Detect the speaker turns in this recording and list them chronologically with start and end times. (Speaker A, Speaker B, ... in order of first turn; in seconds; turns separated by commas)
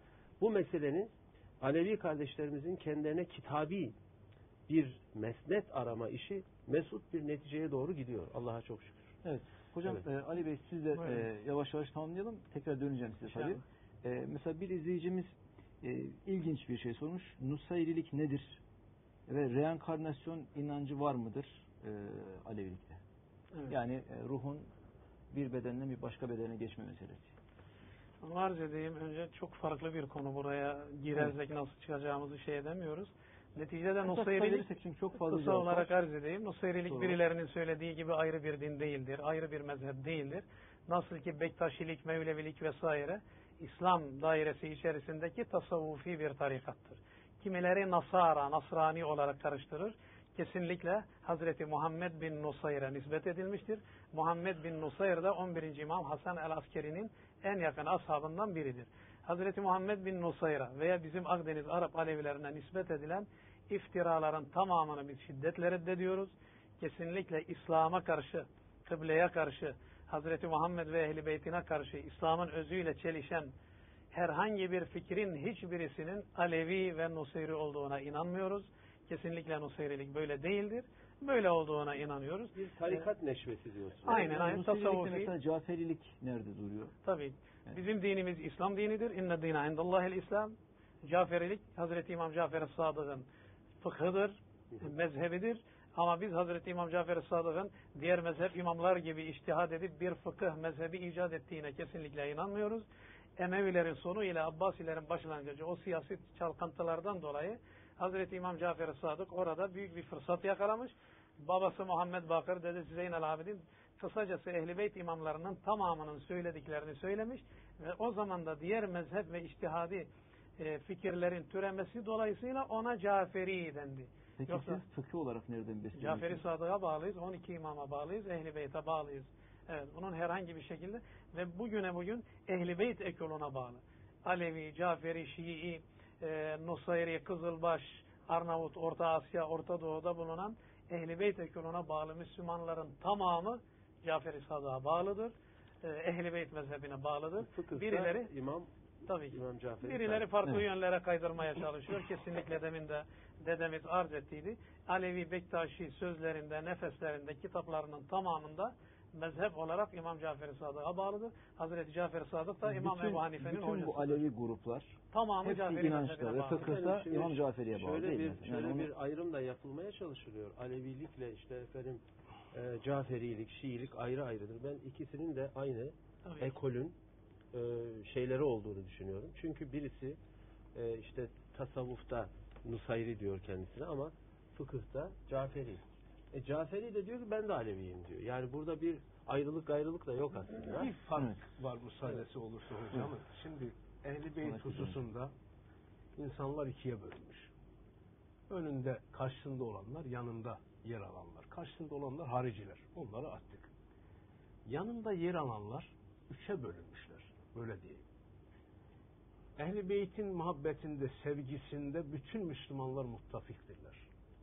Speaker A: 0.4-3.9, Speaker A: 4.7-9.2, Speaker B: 9.2-18.6, Speaker C: 10.9-11.2, Speaker C: 13.2-13.6, Speaker B: 19.3-23.0, Speaker B: 23.7-24.6, Speaker B: 25.3-27.3, Speaker C: 28.2-34.7, Speaker B: 34.0-35.9, Speaker C: 35.2-73.5, Speaker B: 36.9-37.2, Speaker C: 74.1-83.0, Speaker A: 82.5-84.5, Speaker C: 84.0-85.3, Speaker B: 84.0-86.9, Speaker C: 87.0-93.3, Speaker C: 93.8-102.9, Speaker C: 103.4-124.8, Speaker B: 124.4-126.4, Speaker C: 125.9-148.3, Speaker A: 147.4-148.7, Speaker C: 149.1-164.3, Speaker A: 149.2-150.3, Speaker B: 162.6-168.9, Speaker C: 165.1-166.8, Speaker A: 166.5-176.9, Speaker C: 176.2-176.6, Speaker A: 177.5-180.2, Speaker A: 180.7-190.9, Speaker D: 190.7-195.3, Speaker B: 191.1-191.4, Speaker B: 194.4-195.0, Speaker D: 196.2-197.5, Speaker D: 198.5-203.7, Speaker D: 204.7-208.0, Speaker D: 209.6-214.1